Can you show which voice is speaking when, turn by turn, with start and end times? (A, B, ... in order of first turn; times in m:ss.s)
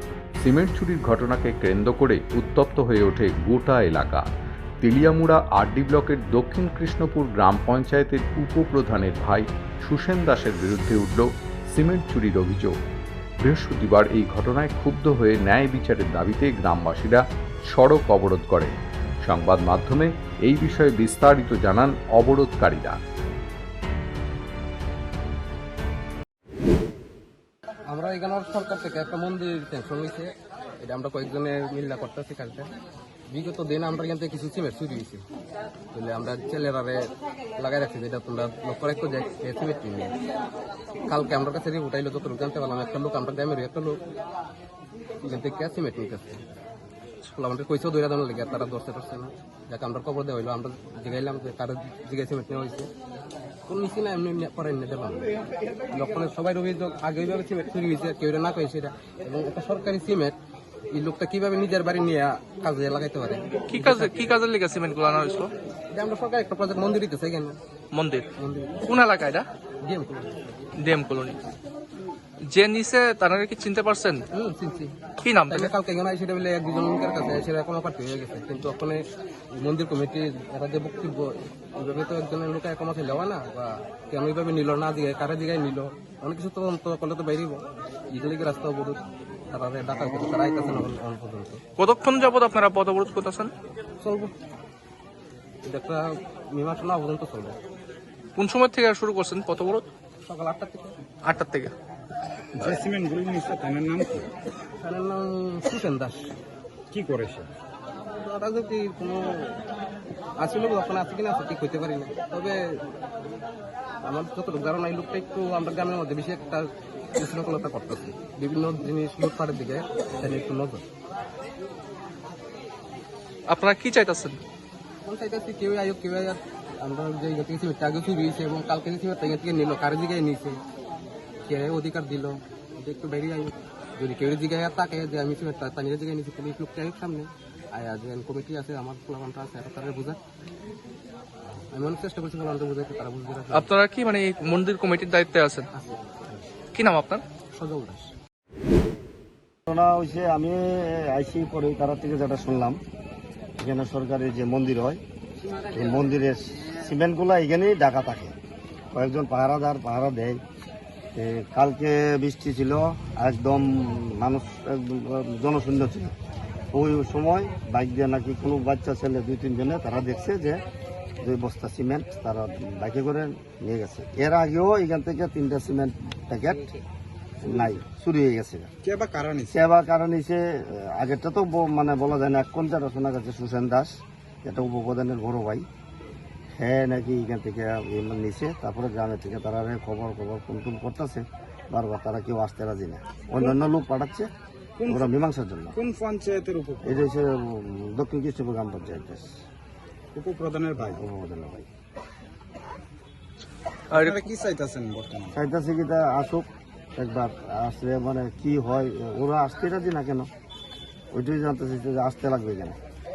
0:00.4-0:04.2 A
0:04.8-0:12.8 A
0:13.4-0:23.0 A
0:27.9-0:32.7 B
0:33.3-0:35.2 B
0:35.9-0:40.2 B
0:41.1-0:44.0 B
0:45.2-0:46.4 B
0:47.2-0:52.9 B
0:53.7-0:55.4 B
0:55.9-1:00.4 B
1:00.9-1:04.3 B
1:03.7-1:05.5 C
1:05.9-1:07.6 B
1:07.9-1:08.3 C
1:08.4-1:08.8 B
1:08.9-1:09.5 C
1:09.8-1:10.4 B
1:10.8-1:11.4 C
1:12.5-1:14.2 C
1:14.3-1:15.0 B
1:15.2-1:15.7 C
1:15.5-1:31.6 B
1:31.8-1:33.5 C
1:34.0-1:34.3 B
1:35.6-1:37.6 B
1:38.4-1:39.9 C
1:40.2-1:41.0 B
1:41.2-1:41.7 C
1:42.6-1:44.3 D
1:44.8-1:46.3 B
1:46.9-1:47.5 D
1:48.1-1:49.6 B
1:50.4-1:53.0 B
1:54.0-2:00.8 B
2:03.5-2:04.4 C
2:05.0-2:10.6 B
2:11.4-2:20.2 B
2:21.7-2:23.7 B
2:23.5-2:25.7 C
2:26.7-2:27.2 C
2:27.6-2:28.0 B
2:29.7-2:32.8 E
2:33.6-2:35.0 E
2:35.6-2:38.4 E
2:38.9-2:40.4 E
2:41.2-2:46.1 E
2:46.7-2:50.6 E
2:51.2-2:56.8 E
2:57.4-2:58.7 E
2:57.5-2:57.7 D
2:58.8-2:59.6 D
2:59.4-3:05.7 E
3:06.6-3:14.3 E
3:14.8-3:15.1 D
3:14.9-3:15.8 E
3:15.7-3:17.1 D
3:16.8-3:19.4 E
3:20.2-3:21.0 D
3:20.8-3:21.7 E
3:23.9-3:24.3 C
3:24.0-3:25.4 D
3:25.3-3:30.3 E
3:31.1-3:32.8 E